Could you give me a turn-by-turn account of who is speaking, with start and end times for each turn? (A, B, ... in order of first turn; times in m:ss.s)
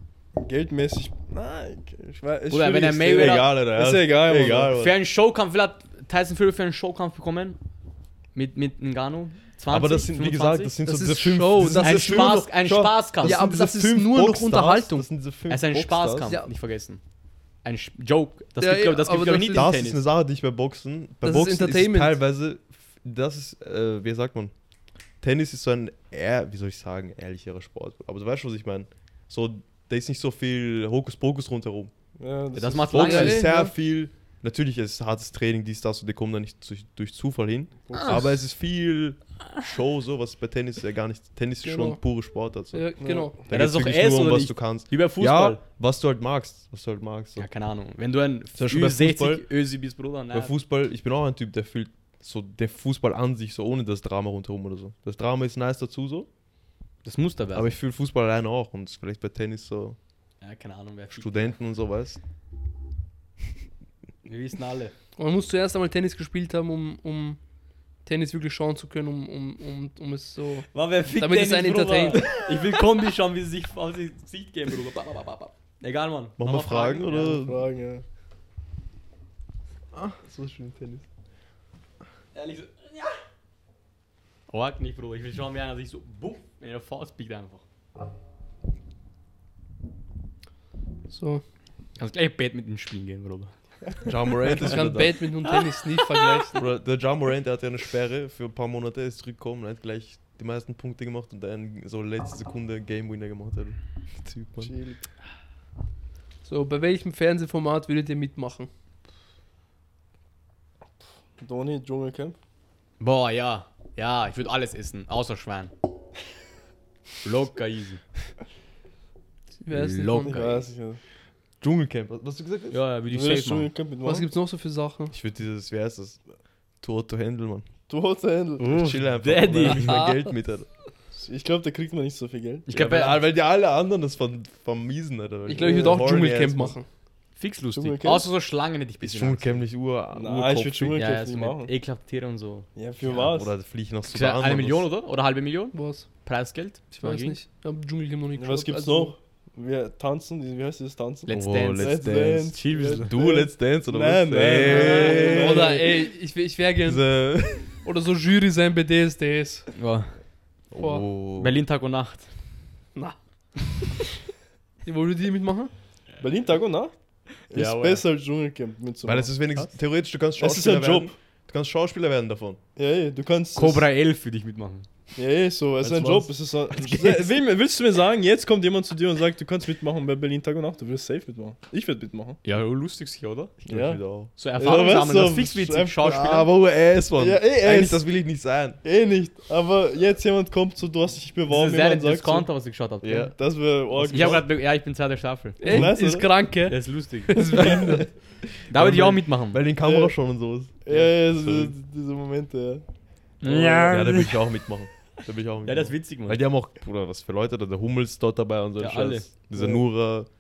0:00.3-0:04.8 A
0:02.5-0:03.5 B
0:03.0-0:05.0 C
0:04.7-0:07.6 B
0:08.3-0:10.7 B
0:09.7-0:16.4 C
0:10.9-0:12.4 D
0:11.8-0:13.4 B
0:13.2-0:15.1 D
0:15.5-0:17.0 B
0:17.6-0:20.0 B
0:18.6-0:19.7 D
0:19.5-0:24.5 C
0:21.2-0:22.2 D
0:25.2-0:31.9 C
0:32.2-0:33.0 A
0:32.5-0:33.5 B
0:32.9-0:47.5 C
0:33.0-0:33.7 D
0:37.9-0:38.3 A
0:37.9-0:38.2 B
0:41.6-0:42.0 D
0:42.7-0:43.4 D
0:43.0-0:43.3 A
0:43.5-0:45.6 B
0:47.4-0:50.5 B
0:48.6-0:49.5 C
0:50.3-0:56.3 C
0:57.0-0:57.7 B
0:57.5-1:00.0 C
1:00.4-1:01.6 B
1:01.1-1:02.2 C
1:04.2-1:04.9 B
1:05.2-1:07.4 D
1:08.0-1:12.3 D
1:10.7-1:17.3 B
1:16.4-1:17.6 C
1:17.1-1:18.0 A
1:19.9-1:21.1 C
1:22.4-1:23.1 B
1:24.5-1:27.6 B
1:31.1-1:31.4 D
1:32.0-1:34.1 B
1:34.0-1:35.2 C
1:34.6-1:36.6 D
1:35.5-1:36.5 B
1:36.6-1:44.7 C
1:44.6-1:45.0 A
1:46.4-1:48.7 D
1:51.4-1:52.4 A
1:53.0-1:55.7 B
1:57.2-1:58.0 B
1:59.6-2:00.4 D
1:59.7-2:00.6 B
2:00.3-2:01.0 A
2:01.6-2:02.8 C
2:02.7-2:03.7 B
2:03.1-2:04.3 A
2:04.0-2:05.1 D
2:05.1-2:06.2 C
2:06.8-2:07.7 C
2:07.9-2:08.8 A
2:08.6-2:10.0 B
2:08.7-2:10.7 C
2:09.6-2:10.3 D
2:11.1-2:12.8 A
2:12.7-2:13.2 B
2:12.8-2:16.8 C
2:15.5-2:16.9 D
2:15.6-2:16.0 A
2:17.4-2:19.6 B
2:17.7-2:18.3 A
2:19.0-2:21.0 C
2:20.2-2:21.7 A
2:21.0-2:23.2 B
2:22.8-2:23.6 A
2:23.1-2:24.9 C
2:24.1-2:27.4 B
2:25.7-2:26.1 D
2:27.0-2:29.1 D
2:28.4-2:36.0 A
2:31.2-2:33.1 B
2:31.3-2:35.8 C
2:34.5-2:37.1 D
2:36.8-2:37.7 C
2:37.6-2:39.7 D
2:39.7-2:40.2 B
2:40.7-2:41.6 C
2:40.8-2:41.0 D
2:41.4-2:42.3 B
2:44.8-2:45.7 D
2:46.2-2:46.9 A
2:47.5-2:49.7 A
2:47.5-2:48.0 B
2:49.0-2:52.6 C
2:50.4-2:51.2 A
2:52.8-2:53.9 A
2:53.6-2:54.9 B
2:55.2-3:02.4 A
2:55.8-2:56.3 B
3:02.4-3:03.5 B
3:03.7-3:04.3 C
3:03.7-3:04.0 A
3:04.4-3:06.5 B
3:04.6-3:06.2 A
3:06.0-3:08.8 C
3:07.2-3:08.1 A
3:08.8-3:12.5 A
3:11.5-3:13.3 B
3:13.0-3:14.4 C
3:13.7-3:14.5 A
3:14.1-3:15.9 B
3:15.6-3:18.1 D
3:15.7-3:16.3 A
3:16.7-3:17.8 B
3:17.4-3:18.0 A
3:18.5-3:21.7 C
3:18.7-3:19.6 B
3:19.8-3:20.2 A
3:20.8-3:22.9 A
3:23.4-3:24.4 B
3:23.4-3:24.1 A
3:23.9-3:30.3 C
3:25.6-3:26.4 B
3:28.8-3:29.3 B
3:29.5-3:29.8 A